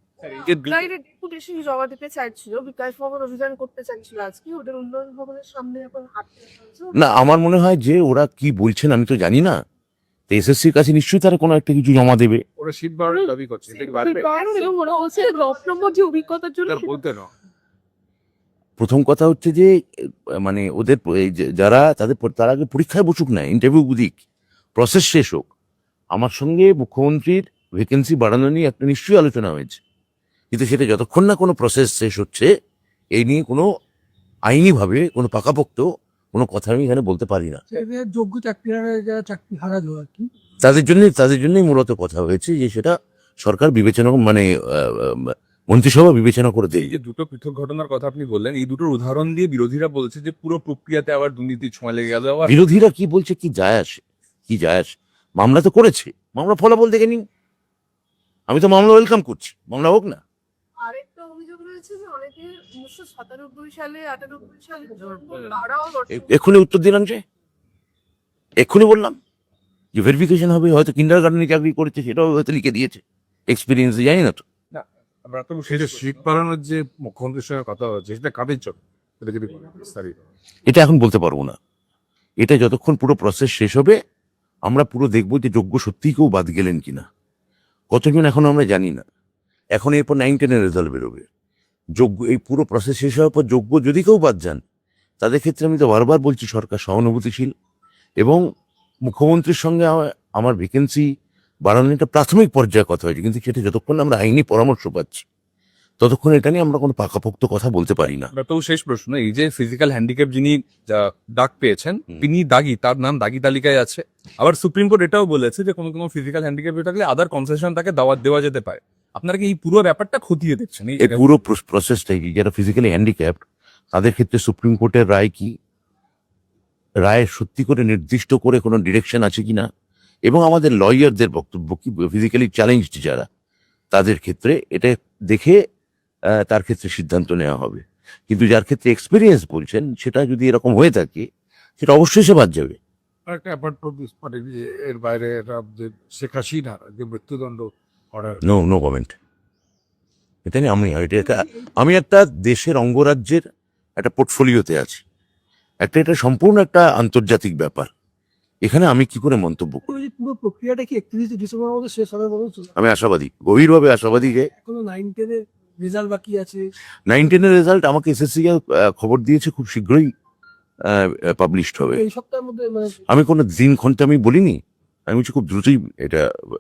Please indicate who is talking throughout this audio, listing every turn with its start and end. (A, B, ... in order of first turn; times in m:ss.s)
0:00.2-0:06.9 A
0:06.9-0:09.6 B
0:10.3-0:12.4 B
0:12.6-0:14.2 C
0:13.1-0:17.0 A
0:16.7-0:17.3 C
0:18.8-0:24.2 B
0:24.8-0:25.5 B
0:26.2-0:29.8 B
0:30.5-0:32.5 B
0:33.2-0:33.7 B
0:34.5-0:37.6 B
0:37.7-0:40.3 D
0:40.6-0:47.0 B
0:46.8-0:52.6 E
0:52.5-0:57.2 B
0:58.5-1:00.2 B
1:00.8-1:06.3 A
1:06.1-1:07.2 B
1:08.6-1:09.2 B
1:09.9-1:14.4 B
1:14.7-1:16.2 E
1:15.8-1:20.2 C
1:20.7-1:21.6 B
1:22.4-1:24.0 B
1:24.7-1:27.1 B
1:27.9-1:29.0 B
1:29.8-1:31.3 B
1:32.0-1:34.6 B
1:35.2-1:37.5 B
1:39.1-1:41.1 B
1:41.7-1:45.3 B
1:46.0-1:48.3 B
1:48.3-2:01.2 E
2:01.0-2:03.4 B
2:03.9-2:05.5 B
2:07.0-2:09.7 B
2:10.3-2:13.3 B
2:13.9-2:15.6 B
2:16.3-2:21.3 B
2:21.8-2:22.8 B
2:23.3-2:28.4 C
2:28.4-2:29.2 B
2:30.4-2:33.4 B
2:34.0-2:35.0 B
2:35.8-2:37.9 B
2:38.6-2:39.8 B
2:39.8-2:42.7 D
2:42.8-2:44.5 B
2:44.6-2:46.6 D
2:47.1-2:50.1 B
2:50.8-2:52.0 B
2:51.8-2:53.0 D
2:53.1-2:56.3 B